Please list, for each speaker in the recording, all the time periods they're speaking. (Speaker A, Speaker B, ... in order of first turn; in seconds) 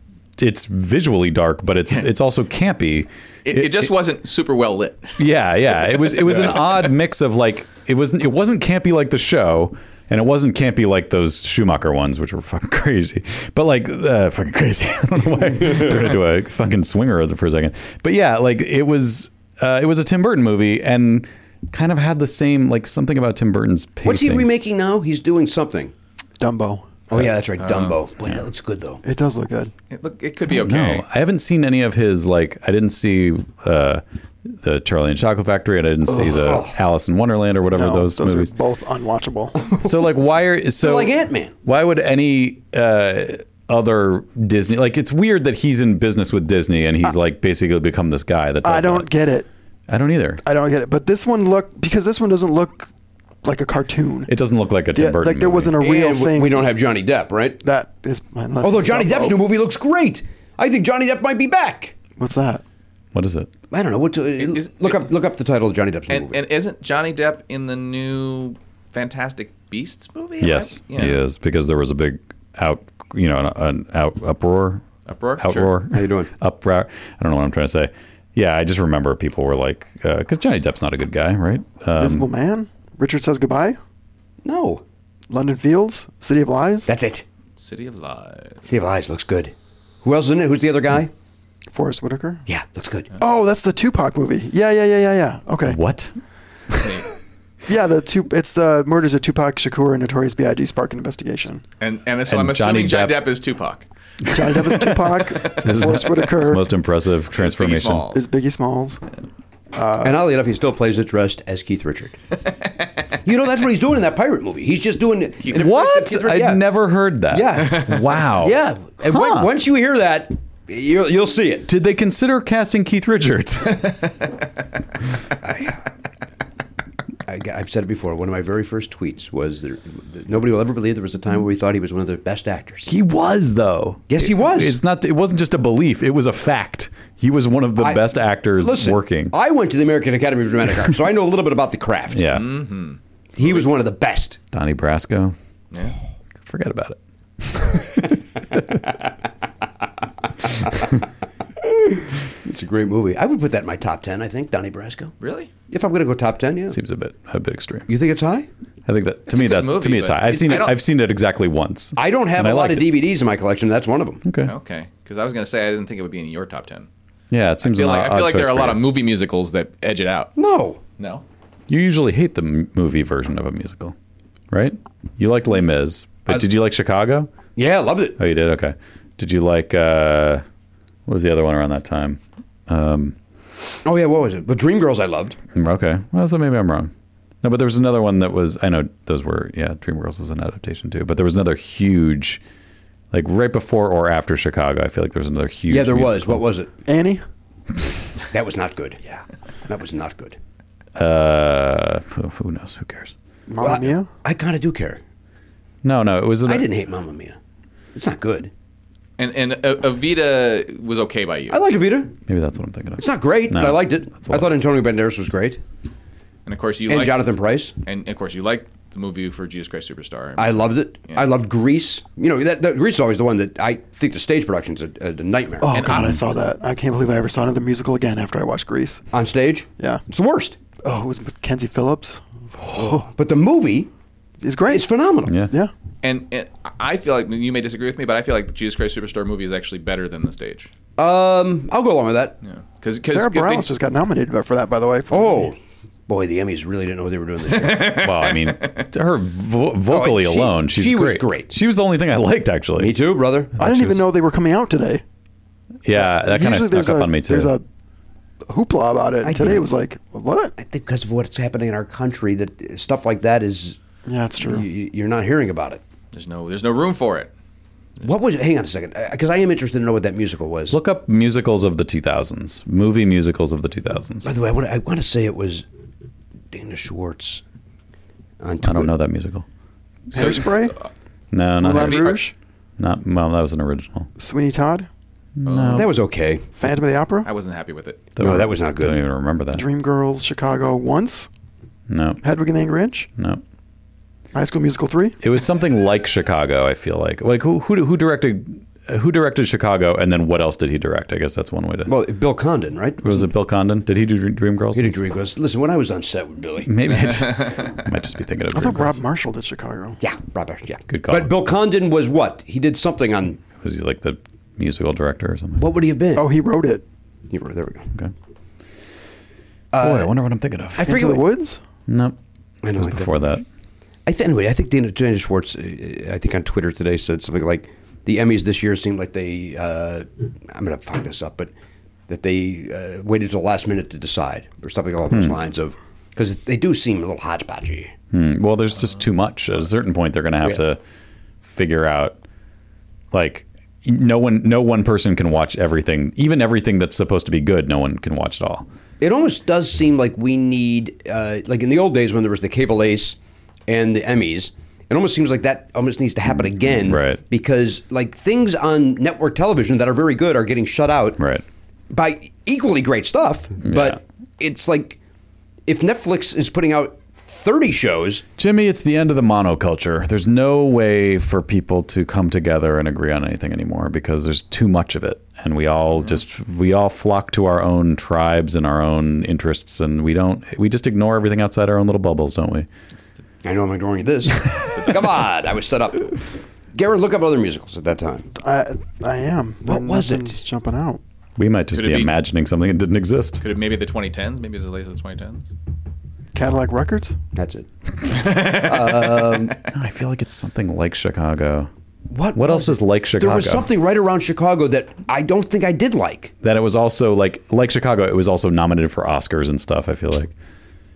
Speaker A: 0.4-3.9, 5.2-24.5, 30.5-38.5, 39.8-49.1, 49.9-50.4, 54.3-55.8, 63.1-63.5, 70.4-74.8, 75.4-82.3, 95.6-96.2, 102.3-103.3, 105.6-108.1, 115.5-119.5, 121.7-124.0, 132.9-139.3, 142.1-142.5, 144.5-145.3, 146.4-148.1, 156.7-157.9, 158.9-163.0, 164.2-164.5, 167.3-168.9, 171.7-173.9, 174.5-177.3, 178.2-180.4, 181.1-183.2, 185.5-186.9, 187.4-192.4, 193.1-196.4, 201.0-203.2, 205.8-206.7, 212.3-214.5, 225.9-226.2, 235.3-235.5, 247.9-252.9, 255.8-257.5, 270.7-274.3, 278.6-279.5, 281.3-282.1, 282.8-284.1, 285.4-285.9, 288.2-289.6, 291.9-292.2, 295.2-301.9, 303.0-305.0, 306.7-309.0, 310.9-311.3, 313.5-315.7, 319.8-321.0, 321.9-322.2, 322.7-323.4, 335.1-335.4, 338.1-340.8, 341.4-342.2, 343.1-348.7, 356.8-357.2, 361.2-361.4, 363.6-364.0, 368.4-382.7, 391.4-393.4, 399.6-401.7, 402.4-403.7, 406.4-410.3
Speaker B: 3.5-5.2, 6.1-6.8, 27.6-28.0, 29.9-31.1, 64.4-65.1, 66.1-71.2, 75.1-75.7, 87.6-88.6, 96.8-97.1, 101.8-103.9, 107.3-108.2, 142.3-143.7, 145.7-146.0, 155.2-155.5, 159.3-160.8, 164.4-166.9, 167.6-170.3, 171.0-171.2, 209.2-211.6, 216.5-217.3, 217.8-221.3, 225.7-226.4, 236.0-240.7, 242.4-243.7, 247.5-248.9, 266.1-267.3, 280.1-280.9, 281.7-282.2, 285.5-285.9, 287.2-288.1, 391.7-392.1, 393.4-395.5, 398.1-399.2
Speaker C: 24.0-25.9, 27.1-29.0, 36.4-36.7, 40.8-41.5, 55.8-57.6, 58.6-62.0, 63.7-66.4, 75.9-76.3, 84.4-84.8, 86.9-87.2, 88.7-91.1, 92.5-93.1, 110.0-112.1, 113.2-116.6, 117.3-121.7, 125.4-125.8, 127.3-132.9, 134.1-134.8, 137.8-142.3, 143.3-144.4, 150.7-150.9, 151.8-155.1, 155.7-156.8, 157.9-158.5, 162.0-164.2, 170.4-170.8, 177.6-178.2, 183.8-185.4, 195.7-196.7, 198.3-199.0, 199.7-200.4, 203.6-205.0, 206.5-207.4, 207.9-208.5, 211.5-212.1, 213.0-215.6, 216.9-217.7, 220.4-225.7, 229.1-230.6, 232.8-233.9, 234.7-235.4, 241.0-242.4, 245.1-245.6, 246.1-248.0, 249.9-251.6, 252.8-253.8, 259.2-259.6, 260.6-263.8, 264.4-265.8, 268.0-270.8, 274.2-275.6, 276.5-277.4, 278.4-278.9, 285.7-286.5, 288.2-289.0, 301.9-303.3, 304.8-307.1, 310.0-313.4, 315.6-316.3, 317.3-317.9, 319.7-320.1, 320.8-321.3, 322.6-323.1, 324.1-331.5, 332.1-337.9, 349.0-361.2, 361.9-365.0, 365.7-368.2, 383.4-386.2, 386.7-388.3, 389.6-390.4, 397.4-399.6, 402.1-406.3
Speaker D: 26.4-27.0, 29.0-29.7, 37.7-39.8, 48.6-49.5, 50.4-52.9, 53.4-54.3, 54.9-56.7, 57.6-59.5, 62.2-62.6, 82.0-83.8, 85.3-86.9, 91.7-92.4, 93.2-95.8, 97.7-101.6, 104.3-106.7, 108.1-109.0, 109.7-110.3, 196.8-197.2, 203.5-204.1, 225.6-229.1, 229.8-230.0, 230.8-233.1, 234.4-235.7, 243.0-245.5, 253.6-255.0, 255.9-257.6, 258.5-260.6, 264.1-264.7, 280.1-280.8, 281.6-282.3, 284.2-284.9, 286.5-287.3, 289.5-291.3, 292.2-293.1, 294.3-295.2, 308.5-310.0, 316.1-316.8, 320.8-321.6, 388.3-391.0, 396.3-397.2